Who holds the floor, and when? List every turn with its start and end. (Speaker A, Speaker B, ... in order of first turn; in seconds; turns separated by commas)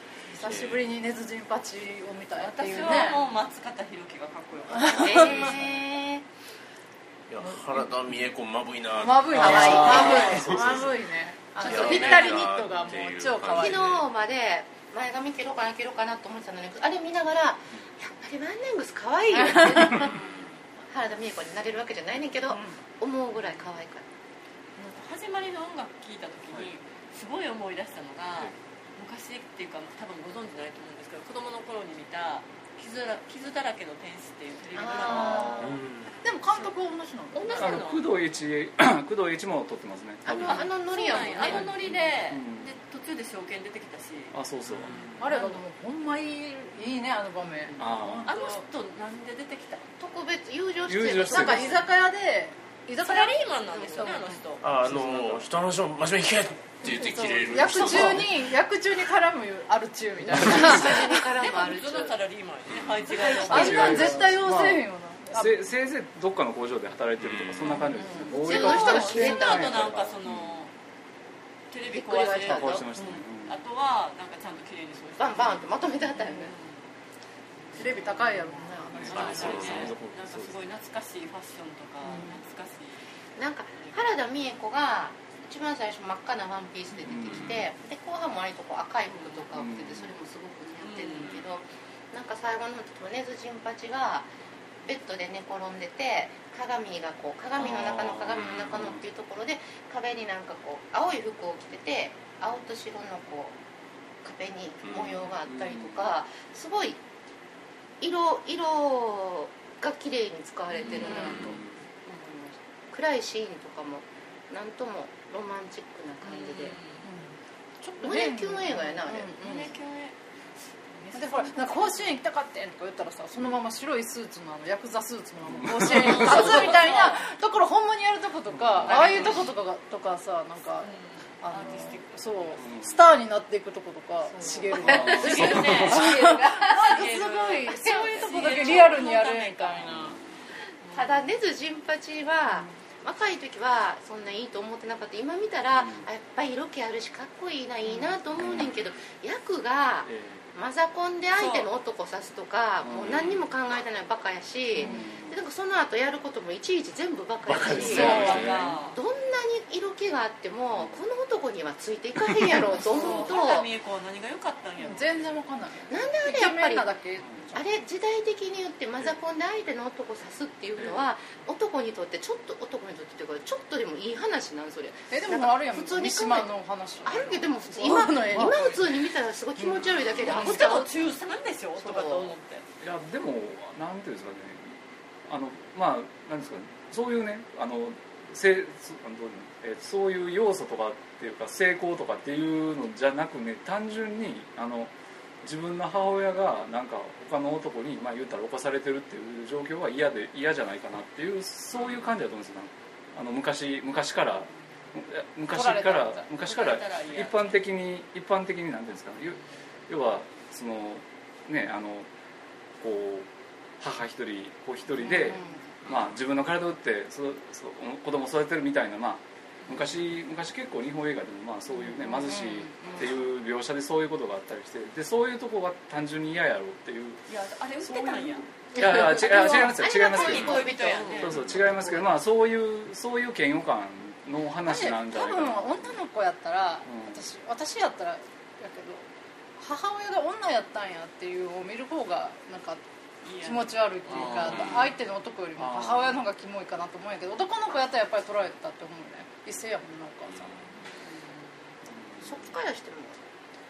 Speaker A: 0.3-3.2, Speaker B: 0.4-0.8, Speaker C: 2.4-5.5, Speaker A: 4.8-5.0, Speaker B: 4.9-5.8, Speaker D: 4.9-6.3, Speaker B: 7.3-11.0, Speaker A: 9.0-14.0, Speaker D: 9.3-10.6, Speaker B: 11.6-14.0, Speaker D: 11.6-12.5, Speaker D: 13.5-20.2, Speaker B: 20.1-20.6, Speaker D: 20.8-24.1, Speaker C: 24.8-35.7, Speaker D: 34.8-35.8, Speaker E: 35.1-35.7, Speaker A: 35.2-35.5, Speaker B: 35.6-36.2, Speaker A: 36.2-37.8, Speaker C: 37.3-38.0, Speaker D: 37.5-37.9, Speaker E: 37.6-40.7, Speaker D: 40.2-41.8, Speaker C: 40.4-44.4, Speaker E: 41.3-42.7, Speaker E: 44.3-45.0, Speaker B: 44.7-45.2, Speaker A: 45.2-48.6, Speaker C: 45.3-45.6, Speaker E: 47.8-48.3, Speaker C: 48.3-49.8, Speaker D: 50.0-51.8, Speaker E: 50.9-51.8, Speaker A: 51.2-54.4, Speaker C: 53.0-54.6, Speaker B: 54.6-58.5, Speaker E: 54.8-55.5, Speaker A: 56.8-61.3, Speaker D: 60.4-62.1, Speaker C: 60.6-64.3, Speaker B: 62.7-63.0, Speaker A: 63.1-65.6, Speaker E: 63.4-70.2, Speaker B: 67.2-67.8, Speaker A: 67.7-69.4, Speaker D: 68.4-69.8, Speaker C: 68.4-70.7, Speaker C: 71.7-76.9, Speaker D: 71.9-72.9, Speaker E: 72.4-73.6, Speaker D: 75.2-76.5, Speaker C: 77.7-83.0, Speaker A: 77.8-79.8, Speaker E: 78.9-80.6, Speaker B: 79.1-79.9, Speaker D: 83.4-94.3, Speaker E: 87.0-87.7, Speaker E: 89.5-90.1, Speaker C: 90.8-91.4, Speaker D: 94.9-103.6, Speaker E: 97.6-99.0, Speaker B: 98.4-98.8, Speaker D: 104.2-107.0, Speaker B: 104.8-105.2, Speaker E: 105.5-106.1, Speaker D: 108.0-116.8, Speaker C: 110.8-111.5, Speaker A: 110.9-111.5, Speaker C: 116.2-117.1, Speaker A: 117.0-119.7, Speaker D: 118.0-119.3, Speaker C: 119.4-120.2, Speaker C: 120.9-122.1, Speaker A: 121.1-140.2, Speaker E: 125.5-126.7, Speaker C: 125.8-127.3, Speaker E: 128.5-129.3, Speaker C: 128.8-129.5, Speaker C: 130.8-132.7, Speaker E: 132.6-133.0, Speaker D: 134.3-137.1, Speaker C: 134.7-140.2, Speaker E: 134.8-136.1, Speaker D: 137.7-139.0, Speaker E: 139.9-140.2, Speaker D: 140.9-163.7, Speaker E: 145.7-146.1, Speaker E: 148.4-148.7, Speaker E: 150.1-150.4, Speaker C: 151.3-151.7, Speaker E: 152.8-153.3, Speaker B: 153.0-153.4, Speaker E: 154.8-155.4, Speaker B: 157.4-158.5, Speaker C: 157.7-159.0, Speaker E: 157.9-158.8, Speaker C: 162.9-165.3, Speaker A: 163.0-163.3, Speaker A: 164.8-167.6, Speaker D: 165.9-166.9, Speaker D: 167.5-176.5, Speaker E: 170.8-171.1, Speaker A: 175.1-178.8, Speaker D: 177.0-180.9, Speaker E: 178.3-178.7, Speaker E: 179.6-179.9, Speaker C: 180.1-182.7, Speaker A: 180.3-180.7, Speaker D: 181.8-182.3, Speaker E: 182.8-194.9, Speaker E: 195.4-212.1, Speaker A: 205.5-206.3, Speaker C: 206.4-207.5, Speaker E: 212.8-213.3, Speaker E: 213.8-227.2, Speaker D: 215.1-215.6, Speaker D: 222.5-223.1, Speaker C: 227.3-229.0, Speaker A: 227.9-228.4, Speaker E: 228.8-236.0, Speaker D: 228.8-231.4, Speaker A: 228.9-229.7, Speaker C: 230.0-231.4, Speaker A: 234.6-242.8, Speaker E: 236.8-237.2, Speaker C: 243.2-244.9, Speaker A: 243.4-250.6, Speaker E: 244.1-244.9, Speaker E: 245.6-246.2, Speaker B: 250.3-250.7, Speaker C: 250.8-251.5, Speaker E: 251.9-252.3, Speaker D: 252.2-253.2